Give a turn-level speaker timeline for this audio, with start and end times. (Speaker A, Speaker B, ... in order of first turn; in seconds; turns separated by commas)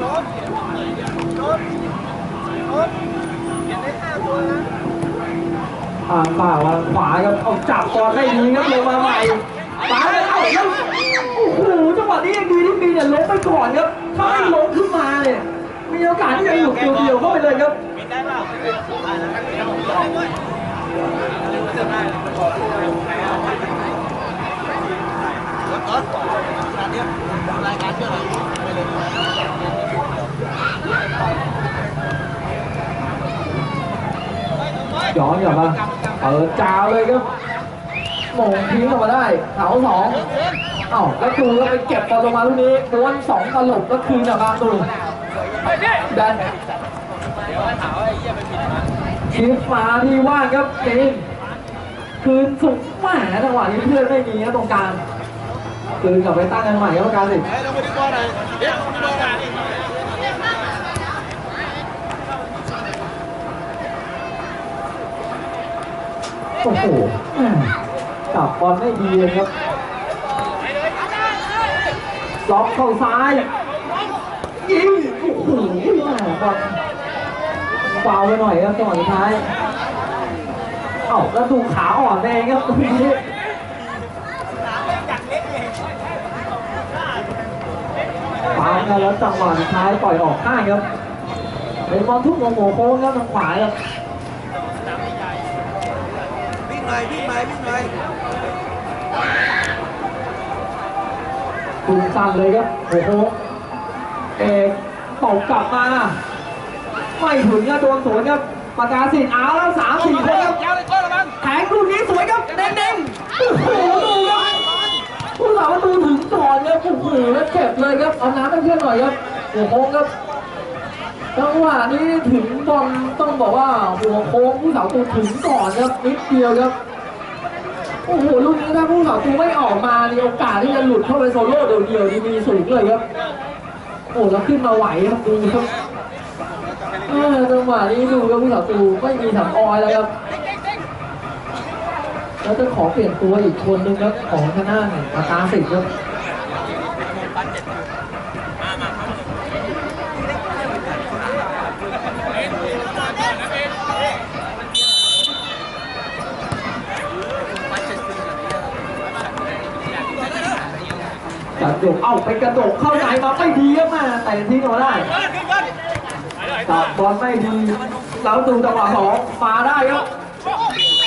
Speaker A: 6.1-17.8, Speaker B: 25.6-26.1, Speaker B: 26.6-28.5, Speaker A: 35.1-37.2, Speaker A: 38.3-40.3, Speaker A: 40.9-44.9, Speaker A: 46.1-46.4, Speaker A: 49.3-51.2, Speaker A: 52.2-55.0, Speaker A: 56.0-57.5, Speaker B: 57.5-59.5, Speaker A: 66.6-67.7, Speaker A: 68.3-69.5, Speaker A: 72.5-73.5, Speaker A: 74.6-76.8, Speaker A: 77.9-79.5, Speaker A: 81.1-83.2, Speaker A: 88.5-90.8, Speaker A: 91.9-93.7, Speaker B: 96.8-97.9, Speaker A: 101.9-103.4, Speaker A: 104.4-106.2, Speaker A: 107.2-110.6, Speaker B: 110.6-111.3, Speaker A: 111.4-114.6, Speaker A: 115.4-120.1, Speaker A: 121.3-126.7, Speaker A: 128.1-133.0, Speaker A: 134.1-135.7, Speaker A: 137.1-140.1, Speaker A: 142.4-145.9, Speaker A: 161.6-165.1, Speaker A: 166.7-170.1